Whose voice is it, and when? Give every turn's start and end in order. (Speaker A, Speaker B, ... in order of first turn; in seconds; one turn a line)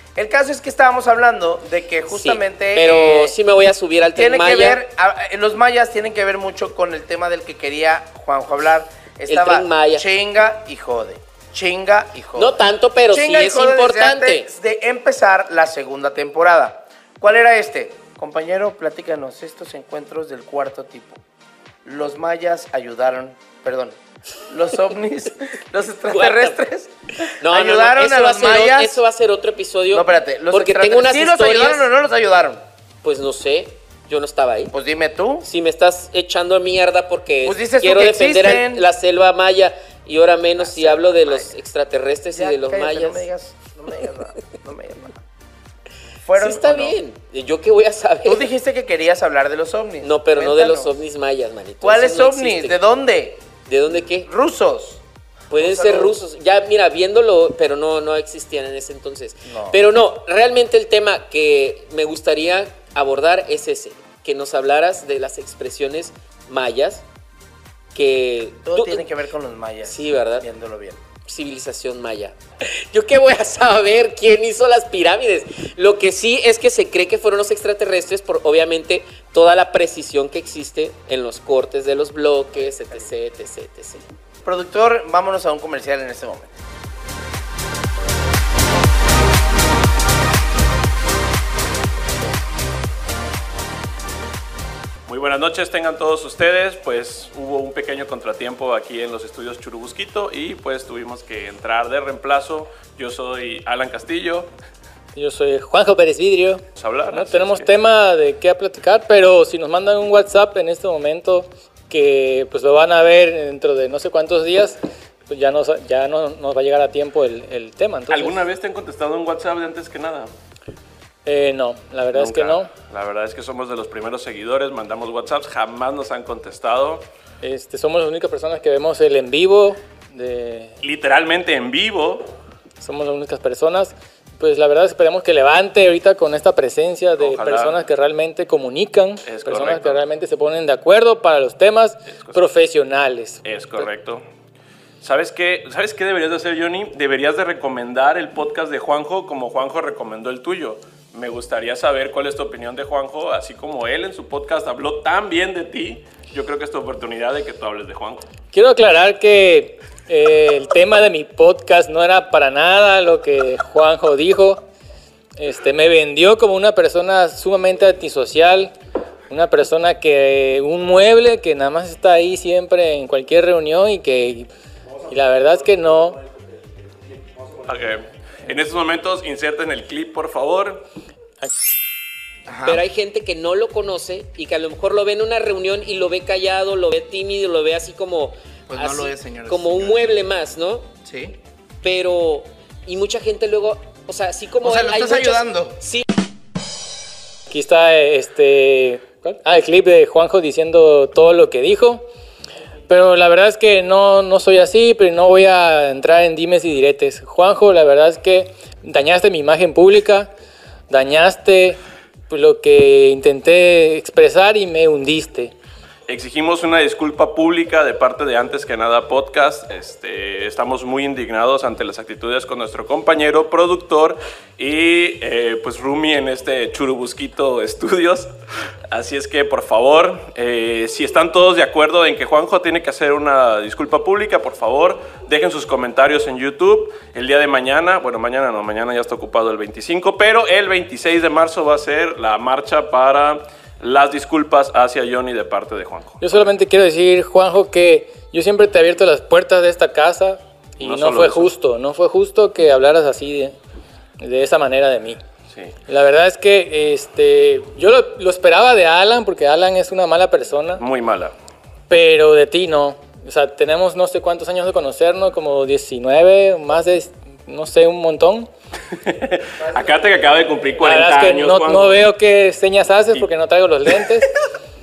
Speaker A: 0.2-3.4
Speaker B: 2.1-4.8
Speaker A: 4.2-12.6
Speaker B: 9.3-10.1
Speaker B: 12.4-14.5
Speaker A: 13.1-21.2
Speaker A: 21.9-29.0
Speaker B: 26.1-26.6
Speaker B: 27.4-31.9
Speaker A: 29.9-32.6
Speaker B: 33.0-34.7
Speaker A: 34.7-35.5
Speaker B: 35.4-43.3
Speaker A: 37.4-38.9
Speaker A: 40.6-41.5
Speaker A: 42.3-45.2
Speaker A: 46.2-47.0
Speaker B: 46.4-48.5
Speaker A: 48.2-50.9
Speaker B: 50.0-52.8
Speaker A: 51.8-53.5
Speaker B: 53.7-54.3
Speaker A: 54.2-55.0
Speaker B: 55.5-67.0
Speaker A: 55.5-56.2
Speaker A: 59.5-59.8
Speaker B: 67.9-69.1
Speaker A: 68.7-71.0
Speaker B: 69.8-70.5
Speaker B: 71.3-84.0
Speaker A: 84.5-86.6
Speaker C: 95.1-104.5
Speaker D: 105.2-114.8
Speaker C: 106.8-107.7
Speaker D: 115.3-118.4
Speaker C: 118.1-120.3
Speaker D: 121.3-122.7
Speaker C: 122.1-127.0
Speaker D: 127.4-130.8
Speaker C: 130.8-132.3
Speaker D: 132.8-143.8
Speaker C: 137.2-137.8
Speaker C: 139.2-140.0
Speaker C: 142.1-142.4
Speaker C: 143.4-144.2
Speaker C: 145.0-158.3
Speaker D: 158.5-164.6
Speaker D: 165.4-168.7
Speaker D: 169.3-174.5
Speaker D: 175.1-176.2
Speaker C: 177.7-180.8
Speaker A: 182.5-182.8
Speaker B: 182.7-190.9
Speaker A: 188.7-190.1
Speaker A: 191.1-191.4
Speaker B: 191.8-196.1
Speaker A: 194.6-195.8
Speaker D: 197.5-202.1
Speaker D: 202.9-210.3
Speaker D: 210.9-215.5
Speaker C: 216.1-228.3
Speaker C: 228.9-246.2
Speaker D: 246.2-253.6
Speaker C: 250.8-251.5
Speaker D: 254.2-255.2
Speaker D: 255.9-260.8
Speaker C: 260.8-261.3
Speaker D: 261.9-268.5
Speaker C: 269.0-272.1
Speaker D: 270.8-274.4